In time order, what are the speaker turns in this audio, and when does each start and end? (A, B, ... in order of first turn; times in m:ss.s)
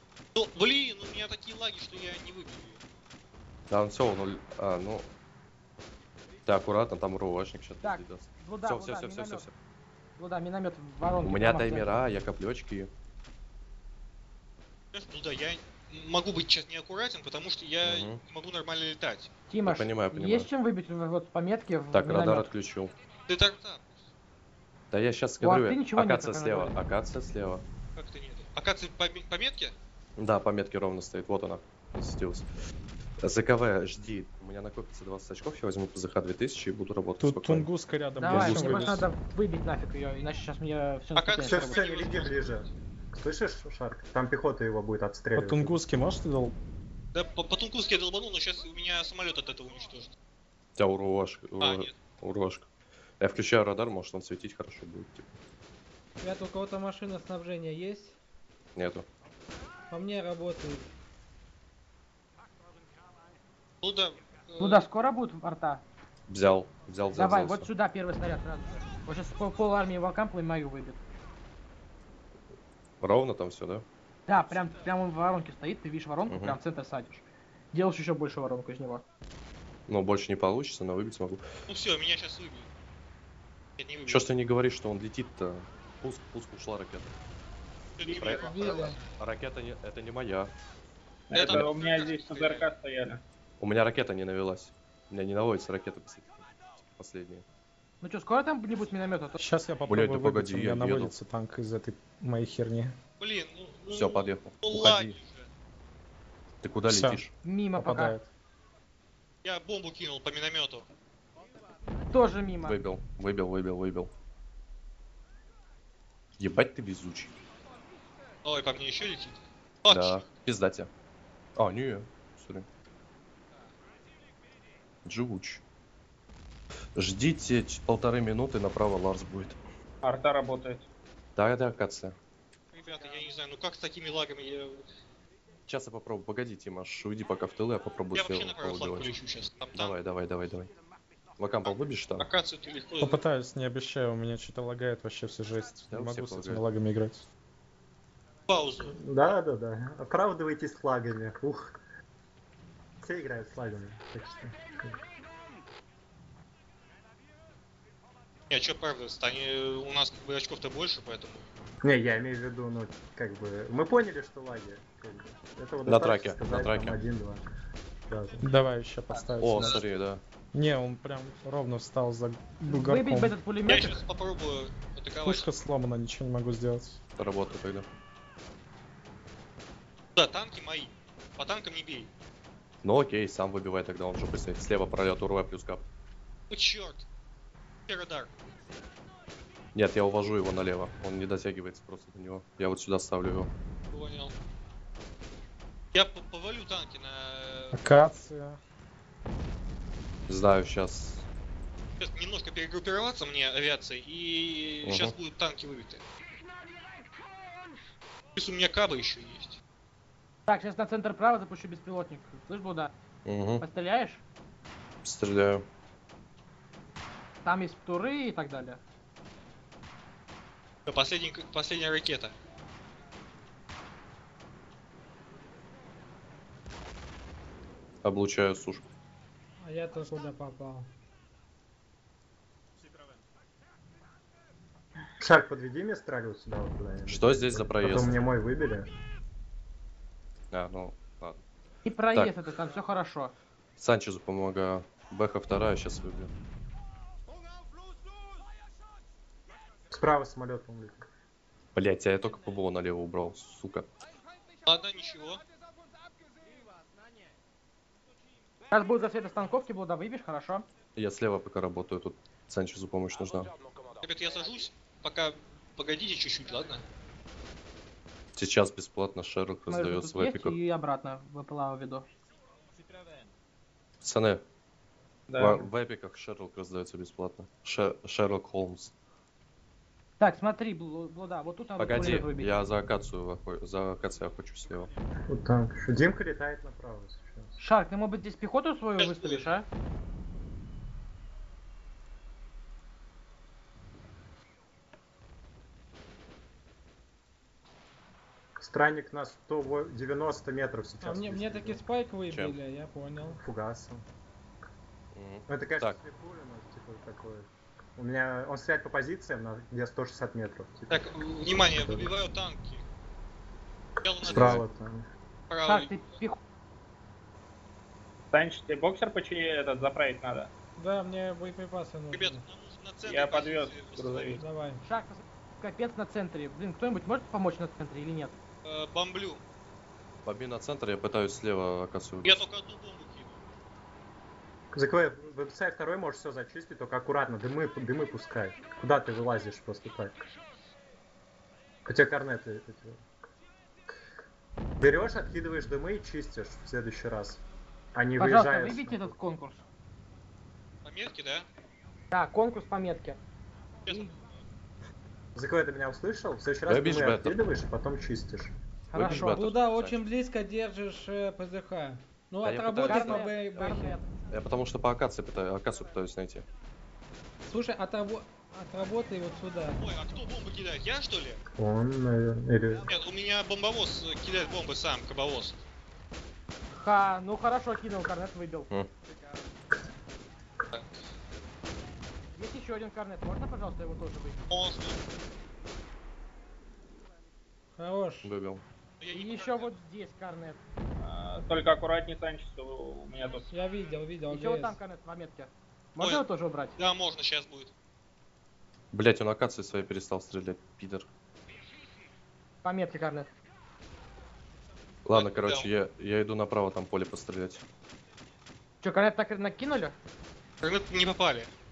0:00.3-0:02.8 A
0:03.7-0:05.0 B
0:06.4-0:09.5 B
0:07.8-0:09.4 C
0:10.2-0:12.2 C
0:11.2-0:12.9 B
0:14.9-0:19.3 A
0:17.8-0:18.2 B
0:19.5-0:22.5 C
0:19.6-0:20.5 B
0:21.9-0:22.9 B
0:23.3-0:24.0 A
0:24.9-0:27.6 B
0:25.4-0:26.7 C
0:28.0-0:29.7 A
0:30.2-0:32.5 B
0:33.2-0:37.7 B
0:37.2-0:39.1 D
0:38.2-0:41.8 C
0:38.3-0:39.0 B
0:41.1-0:42.7 A
0:41.4-0:45.8 E
0:45.3-0:46.6 D
0:47.1-0:50.1 A
0:50.8-0:52.7 B
0:51.6-0:51.9 A
0:53.2-0:55.4 B
0:56.2-0:58.2 F
0:58.8-0:59.0 B
0:59.9-1:00.9 F
1:03.8-1:04.9 A
1:04.6-1:05.8 C
1:06.3-1:07.7 B
1:07.1-1:11.0 C
1:13.0-1:13.8 B
1:14.3-1:19.0 C
1:16.3-1:16.6 B
1:19.9-1:21.5 B
1:21.7-1:22.7 A
1:23.8-1:24.3 A
1:24.1-1:27.1 B
1:28.0-1:29.0 A
1:28.0-1:28.9 G
1:28.4-1:29.0 F
1:29.1-1:30.5 B
1:31.3-1:33.2 G
1:31.3-1:32.7 A
1:33.6-1:37.4 B
1:38.0-1:39.4 C
1:39.4-1:42.9 D
1:39.9-1:41.2 B
1:43.2-1:45.5 A
1:43.9-1:45.2 B
1:46.6-1:47.3 B
1:46.8-1:48.3 D
1:47.4-1:48.2 C
1:49.4-1:50.9 A
1:52.1-1:52.8 C
1:52.6-1:54.1 B
1:56.4-1:57.3 B
1:58.4-2:00.3 A
1:59.9-2:00.9 B
2:01.6-2:02.6 B
2:05.0-2:05.6 B
2:07.0-2:09.6 B
2:10.0-2:10.9 G
2:11.4-2:12.2 B
2:12.7-2:14.8 A
2:15.7-2:19.1 B
2:18.1-2:20.0 A
2:19.7-2:20.7 B
2:21.4-2:22.3 B
2:21.6-2:23.2 A
2:23.0-2:27.2 D
2:25.9-2:26.6 B
2:28.5-2:29.0 A
2:28.8-2:31.8 E
2:33.0-2:35.0 E
2:38.5-2:41.4 A
2:41.8-2:47.4 E
2:45.8-2:47.0 B
2:48.1-2:48.4 E
2:48.4-2:49.8 D
2:49.4-2:50.2 B
2:50.5-2:53.4 D
2:52.7-2:54.0 C
2:53.6-2:55.5 A
2:55.2-2:57.0 D
2:57.2-2:57.9 B
3:00.2-3:02.1 A
3:02.8-3:05.8 B
3:06.5-3:07.0 A
3:07.9-3:08.3 A
3:09.7-3:13.5 B
3:13.9-3:14.3 A
3:15.9-3:17.8 A
3:17.7-3:18.6 D
3:20.3-3:21.2 B
3:22.0-3:26.0 A
3:24.8-3:25.1 B
3:28.4-3:29.6 A
3:30.5-3:32.9 C
3:33.2-3:33.6 B
3:33.6-3:34.2 C
3:35.0-3:35.6 B
3:37.4-3:38.8 C
3:40.9-3:42.3 A
3:48.0-3:48.8 B
3:49.6-3:50.9 F
3:55.2-3:58.9 E
3:57.1-3:58.3 B
4:00.5-4:01.4 B
4:01.8-4:03.3 C
4:02.1-4:02.4 B
4:03.8-4:06.3 B
4:09.9-4:11.0 E
4:11.7-4:13.9 B
4:14.6-4:15.4 A
4:18.7-4:20.6 C
4:21.0-4:23.5 B
4:24.0-4:26.8 A
4:28.4-4:30.6 B
4:29.7-4:32.0 C
4:34.0-4:34.4 B
4:35.3-4:35.6 G
4:35.3-4:38.9 B
4:40.2-4:42.5 C
4:41.8-4:44.9 B
4:45.3-4:47.6 E
4:47.6-4:49.6 C
4:49.0-4:49.5 A
4:58.6-5:01.8 E
5:01.0-5:03.4 F
5:02.3-5:02.6 B
5:03.2-5:04.0 E
5:05.1-5:06.0 B
5:05.5-5:12.1 E
5:10.9-5:12.8 A
5:14.0-5:14.6 A
5:14.2-5:15.1 E
5:14.2-5:14.6 B
5:15.5-5:16.0 A
5:15.6-5:16.4 C
5:18.3-5:20.5 G
5:20.8-5:22.4 F
5:22.1-5:24.4 A
5:23.0-5:24.4 G
5:24.4-5:24.8 F
5:24.8-5:28.3 C
5:28.6-5:29.4 A
5:30.2-5:32.4 B
5:32.2-5:33.4 A
5:34.7-5:40.2 E
5:41.8-5:43.0 E
5:44.8-5:47.4 E
5:47.9-5:49.1 E
5:48.2-5:49.6 C
5:50.8-5:51.5 A
5:52.1-5:53.2 C
5:53.8-5:54.2 A
5:55.3-5:58.5 E
5:56.7-5:57.4 B
5:58.9-5:59.4 C
5:58.9-6:00.0 B
5:59.0-6:04.0 F
6:02.4-6:03.3 B
6:02.8-6:04.0 C
6:04.3-6:06.4 B
6:07.5-6:09.8 F
6:09.8-6:11.4 A
6:11.6-6:12.9 E
6:12.9-6:15.6 A
6:16.7-6:18.7 C
6:22.3-6:24.4 C
6:24.5-6:25.0 A
6:27.8-6:28.3 F
6:28.2-6:28.6 B
6:29.0-6:29.7 A
6:29.1-6:30.6 C
6:31.0-6:33.5 G
6:33.5-6:34.8 F
6:34.3-6:36.7 C
6:36.0-6:36.2 A
6:36.8-6:37.7 A
6:38.9-6:41.1 B
6:42.6-6:43.3 C
6:45.0-6:47.6 B
6:45.1-6:45.7 A
6:48.8-6:50.0 C
6:50.6-6:51.5 A